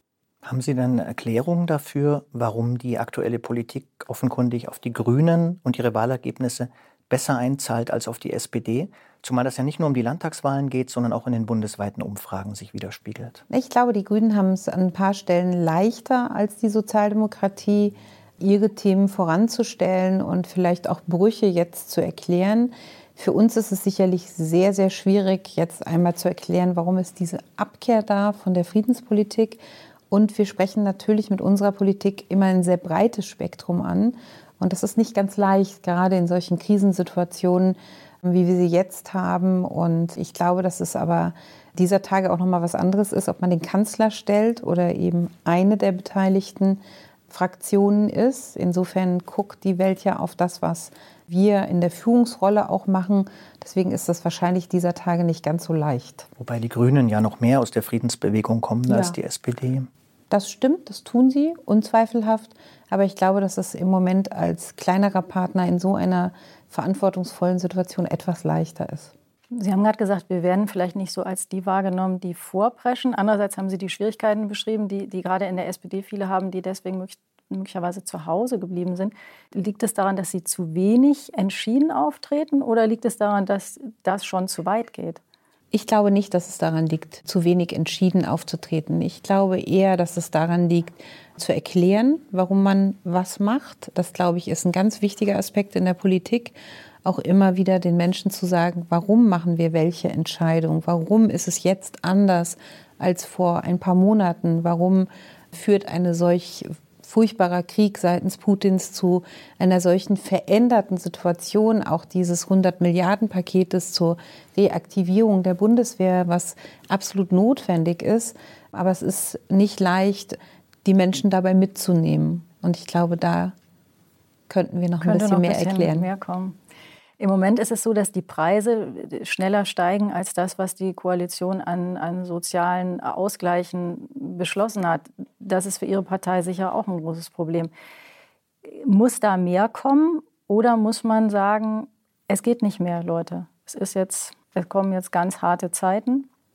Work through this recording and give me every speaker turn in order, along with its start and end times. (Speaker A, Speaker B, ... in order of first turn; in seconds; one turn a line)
Speaker A: 0.4-13.4
Speaker B: 13.5-56.3
Speaker A: 56.4-59.9
Speaker B: 58.9-59.2
Speaker B: 60.3-69.1
Speaker C: 69.5-85.2
Speaker B: 85.7-123.5
Speaker B: 124.5-126.1
Speaker C: 125.0-126.6
Speaker C: 127.2-137.7
Speaker C: 138.8-146.3